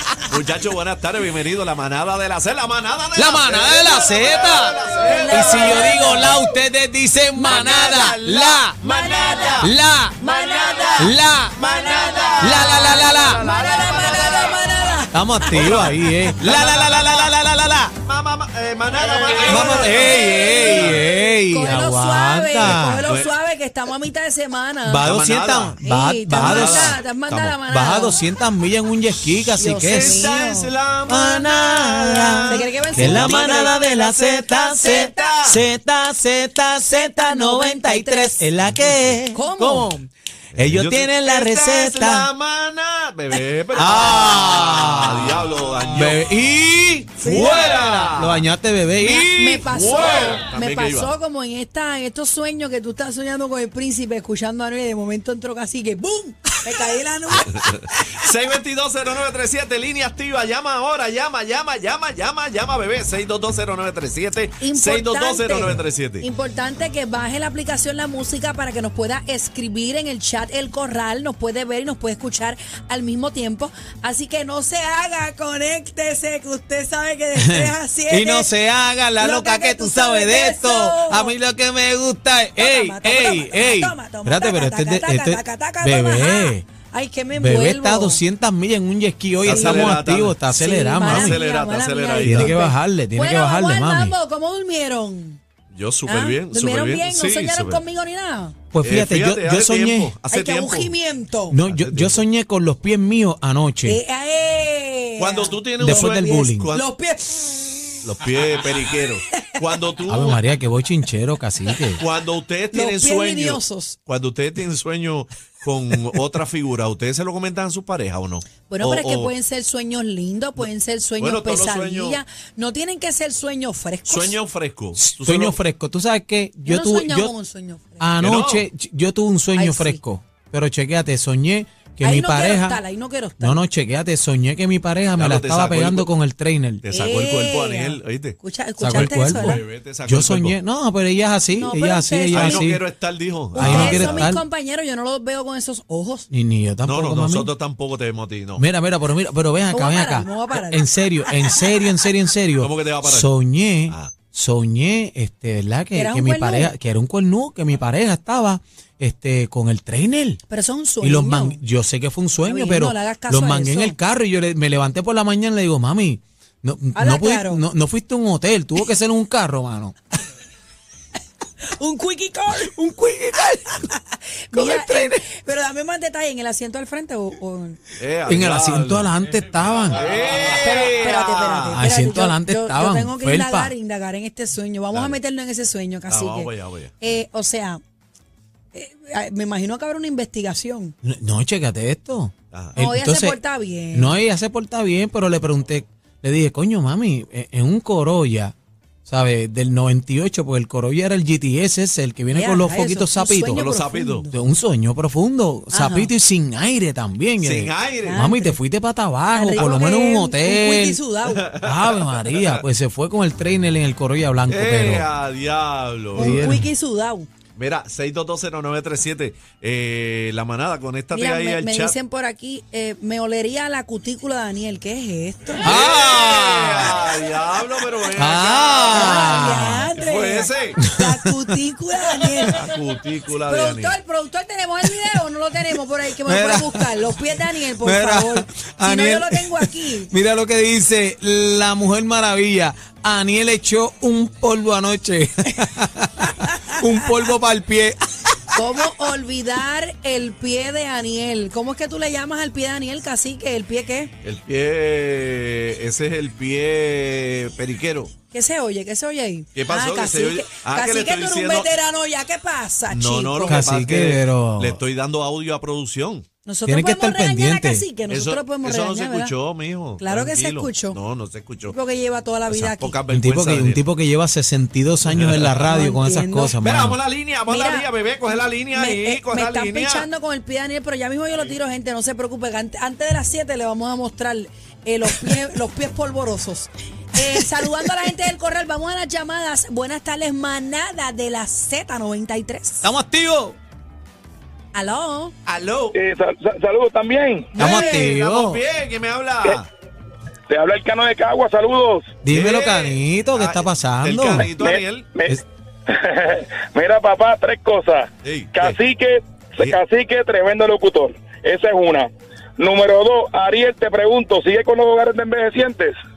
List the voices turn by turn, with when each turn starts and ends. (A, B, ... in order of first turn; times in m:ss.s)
0:00.3-0:06.3 A
0:03.2-0:08.8 B
0:04.9-0:06.4 C
0:07.3-0:07.9 C
0:07.4-0:14.6 A
0:08.8-0:15.9 C
0:09.6-0:10.2 B
0:11.0-0:11.6 B
0:12.4-0:13.4 B
0:15.1-0:17.9 B
0:15.5-0:17.3 A
0:18.0-0:21.0 A
0:19.2-0:25.1 C
0:19.4-0:23.1 B
0:22.6-0:23.3 A
0:24.8-0:27.0 B
0:25.0-0:25.8 A
0:25.8-0:28.2 C
0:26.4-0:27.5 A
0:27.6-0:30.3 B
0:29.6-0:30.7 C
0:29.8-0:35.6 A
0:31.1-0:39.9 B
0:32.5-0:33.8 C
0:36.9-0:38.5 C
0:38.7-0:39.2 A
0:39.3-0:40.1 C
0:40.5-0:46.2 A
0:40.6-0:42.3 B
0:43.7-0:49.4 B
0:43.8-0:44.1 C
0:47.2-0:48.4 A
0:47.2-0:47.7 C
0:49.0-0:57.7 C
0:49.3-0:51.1 A
0:57.5-1:06.3 A
1:04.6-1:18.5 C
1:17.3-1:26.6 B
1:19.2-1:21.3 C
1:22.6-1:28.2 C
1:27.3-1:31.4 B
1:29.4-1:30.4 A
1:29.4-1:35.4 C
1:31.0-1:32.5 A
1:32.2-1:34.1 B
1:35.7-1:37.8 A
1:36.0-1:38.5 C
1:38.7-1:40.1 B
1:38.8-1:40.9 A
1:40.3-1:41.6 C
1:41.5-1:44.0 B
1:41.6-1:42.2 A
1:43.8-1:48.1 C
1:45.2-1:46.9 A
1:45.8-1:46.7 B
1:48.0-1:50.4 A
1:50.1-1:52.0 B
1:52.0-1:59.3 A
1:52.7-1:54.0 C
1:58.7-2:04.4 C
2:01.2-2:02.2 A
2:04.1-2:05.6 A
2:05.0-2:07.3 B
2:06.6-2:08.1 C
2:08.0-2:12.8 B
2:08.2-2:08.6 A
2:09.5-2:10.0 C
2:12.0-2:13.6 C
2:13.4-2:16.8 B
2:15.1-2:16.1 A
2:16.8-2:18.4 A
2:16.9-2:19.6 C
2:18.8-2:22.8 B
2:19.0-2:20.6 A
2:21.6-2:22.7 C
2:22.3-2:24.3 A
2:23.5-2:24.4 B
2:23.5-2:26.3 C
2:26.3-2:27.5 B
2:26.8-2:28.6 A
2:28.6-2:40.4 B
2:29.7-2:31.8 C
2:32.6-2:33.3 A
2:35.9-2:36.7 C
2:40.5-2:41.6 C
2:41.0-2:49.9 B
2:42.4-2:44.0 C
2:46.9-2:47.6 C
2:51.8-2:52.7 C
2:52.6-2:53.9 B
2:53.8-2:57.8 C
2:54.5-2:55.2 B
2:58.0-2:59.1 A
2:58.2-3:00.0 B
2:59.9-3:01.8 A
3:00.5-3:07.8 C
3:01.7-3:03.7 B
3:04.9-3:05.2 A
3:06.1-3:06.9 A
3:08.7-3:10.9 C
3:11.0-3:13.4 B
3:12.8-3:14.2 C
3:13.9-3:18.5 B
3:19.0-3:23.6 B
3:22.3-3:24.3 C
3:23.6-3:24.3 A
3:24.3-3:31.0 B
3:25.7-3:26.1 C
3:27.4-3:28.2 A
3:28.0-3:28.6 C
3:29.3-3:31.5 C
3:31.6-3:32.6 A
3:31.6-3:35.1 B
3:34.5-3:36.4 A
3:36.1-3:37.3 C
3:36.1-3:36.7 B
3:37.5-3:42.0 A
3:41.1-3:45.8 C
3:45.6-3:46.9 B
3:45.6-3:49.3 A
3:48.2-3:49.9 B
3:48.9-3:52.6 C
3:50.0-3:50.8 A
3:50.8-3:51.5 B
3:52.5-3:53.9 A
3:53.4-4:00.1 C
3:54.8-3:55.2 B
3:56.2-3:57.1 B
3:57.8-4:08.7 B
4:06.3-4:06.7 C
4:08.6-4:14.1 C
4:14.2-4:18.1 A
4:18.3-4:23.7 C
4:19.5-4:21.7 A
4:22.9-4:26.2 A
4:23.4-4:24.8 B
4:26.4-4:29.3 C
4:26.6-4:27.8 B
4:28.1-4:31.7 A
4:30.0-4:31.0 C
4:31.7-4:33.0 C
4:32.5-4:33.8 A
4:33.1-4:37.0 B
4:35.0-4:35.8 A
4:35.7-4:36.6 C
4:36.6-4:40.1 A
4:37.5-4:37.9 C
4:38.7-4:52.9 C
4:47.2-4:47.9 B
4:52.8-4:53.6 B
4:54.7-4:55.3 C
4:55.4-4:56.0 A
4:55.9-4:57.6 D
4:57.6-4:58.6 B
4:57.6-4:58.0 C
4:58.0-4:59.7 A
5:00.5-5:02.0 D
5:02.2-5:04.5 B
5:02.3-5:05.1 A
5:04.3-5:15.9 D
5:08.2-5:08.8 A